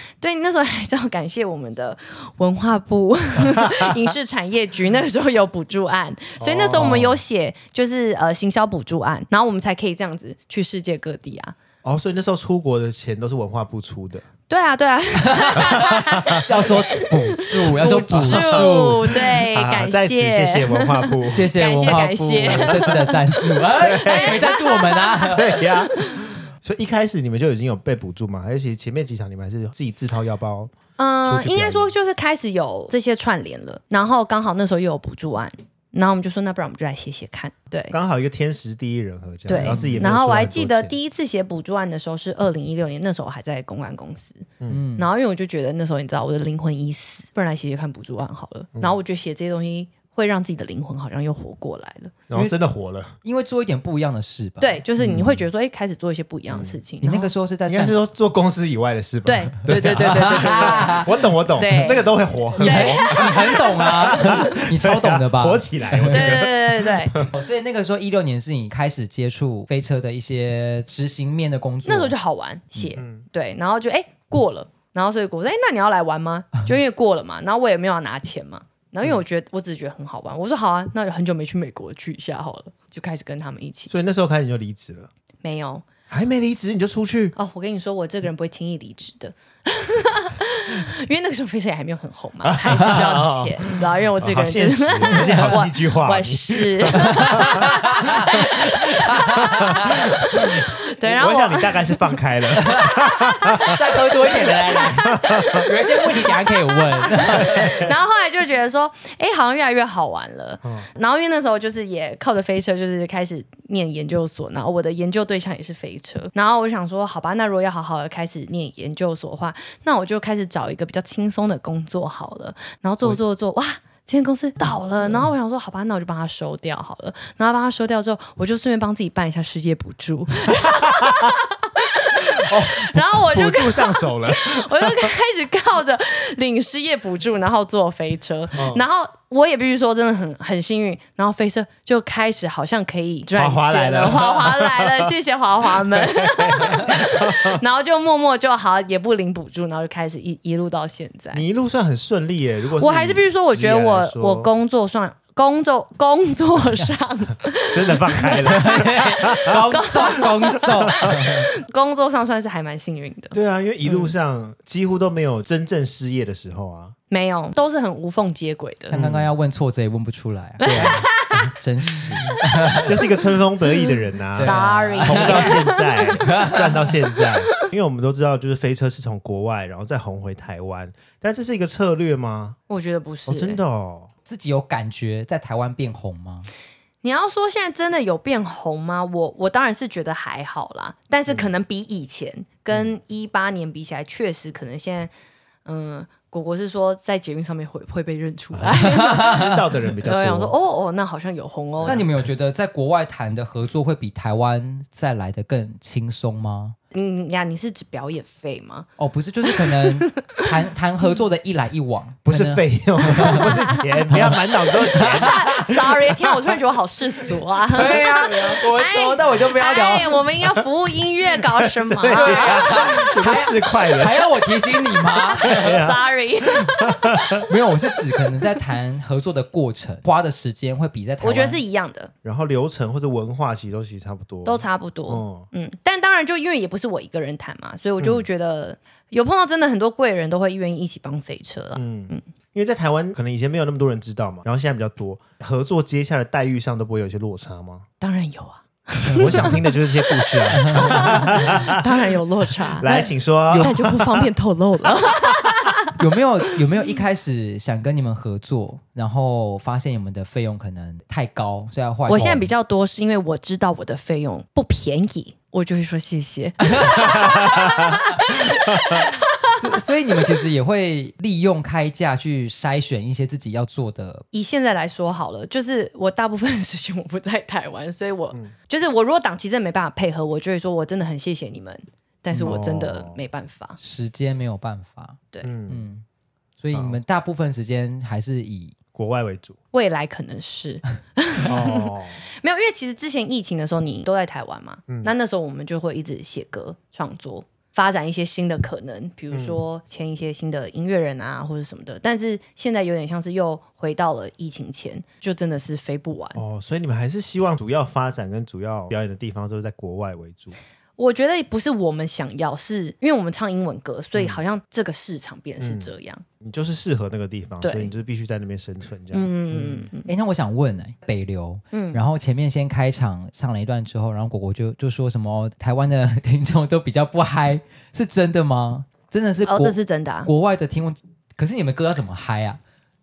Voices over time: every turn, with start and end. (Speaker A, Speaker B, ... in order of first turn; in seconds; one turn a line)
Speaker A: 0.2-11.6
Speaker B: 6.4-7.2
Speaker B: 11.8-14.3
Speaker A: 14.5-26.3
Speaker C: 15.2-19.0
Speaker B: 15.6-16.4
Speaker B: 18.0-21.5
Speaker C: 21.3-25.7
Speaker B: 22.5-22.8
Speaker B: 23.8-24.6
Speaker B: 25.3-31.9
Speaker A: 31.0-38.0
Speaker B: 37.9-41.0
Speaker A: 39.5-52.2
Speaker C: 39.5-40.1
Speaker C: 44.7-45.1
Speaker B: 52.3-53.1
Speaker C: 53.2-55.3
Speaker A: 54.6-57.3
Speaker C: 57.0-58.0
Speaker B: 57.7-67.3
Speaker A: 59.2-64.6
Speaker C: 59.7-61.1
Speaker C: 62.6-66.5
Speaker A: 66.1-67.2
Speaker C: 67.2-72.1
Speaker A: 71.8-83.9
Speaker B: 73.0-73.2
Speaker B: 83.9-85.1
Speaker A: 85.4-85.9
Speaker B: 86.1-87.3
Speaker A: 87.3-102.2
Speaker B: 92.4-98.5
Speaker C: 95.1-95.5
Speaker C: 97.0-100.1
Speaker B: 99.2-103.8
Speaker C: 102.5-107.9
Speaker A: 103.0-103.8
Speaker A: 104.7-151.4
Speaker B: 105.0-105.6
Speaker B: 107.6-107.9
Speaker B: 130.6-131.3
Speaker B: 132.3-135.1
Speaker B: 138.6-138.8
Speaker B: 143.3-145.1
Speaker B: 145.7-147.6
Speaker B: 151.3-154.5
Speaker A: 152.8-164.1
Speaker B: 157.7-159.6
Speaker C: 158.5-161.5
Speaker B: 160.9-161.2
Speaker B: 163.3-166.9
Speaker A: 167.1-169.0
Speaker C: 168.9-173.0
Speaker B: 168.9-169.3
Speaker A: 170.6-171.5
Speaker B: 170.7-171.1
Speaker B: 172.0-182.6
Speaker C: 174.3-176.9
Speaker A: 174.4-176.5
Speaker A: 177.1-177.7
Speaker A: 182.7-183.6
Speaker B: 183.3-184.1
Speaker C: 184.2-186.5
Speaker A: 187.0-195.1
Speaker A: 195.7-202.1
Speaker B: 198.6-200.5
Speaker C: 198.9-199.6
Speaker B: 201.8-202.1
Speaker C: 201.9-206.8
Speaker A: 206.9-208.9
Speaker C: 209.0-215.6
Speaker A: 209.5-210.4
Speaker B: 212.3-216.3
Speaker A: 213.3-213.8
Speaker A: 214.9-223.1
Speaker C: 217.7-220.3
Speaker B: 221.8-224.2
Speaker C: 222.1-225.8
Speaker A: 225.3-227.5
Speaker B: 225.4-227.5
Speaker C: 227.5-231.6
Speaker A: 231.2-232.1
Speaker B: 232.2-235.5
Speaker A: 234.4-242.2
Speaker B: 238.0-238.2
Speaker B: 241.8-247.9
Speaker A: 248.0-255.9
Speaker C: 249.1-249.6
Speaker B: 249.1-252.1
Speaker C: 250.5-251.6
Speaker B: 252.7-254.3
Speaker C: 255.9-262.5
Speaker A: 262.1-269.6
Speaker C: 266.7-274.2
Speaker B: 267.0-267.7
Speaker A: 274.3-283.8
Speaker B: 282.3-283.2
Speaker C: 283.8-286.0
Speaker B: 285.4-285.9
Speaker C: 286.6-288.8
Speaker B: 286.7-287.0
Speaker B: 288.9-289.6
Speaker A: 289.7-306.4
Speaker B: 291.5-292.2
Speaker B: 299.3-299.6
Speaker B: 306.4-310.6
Speaker A: 311.0-316.2
Speaker B: 315.6-315.9
Speaker B: 316.4-319.9
Speaker A: 317.6-317.9
Speaker A: 319.1-320.1
Speaker C: 320.1-332.6
Speaker A: 321.7-322.0
Speaker A: 329.4-330.3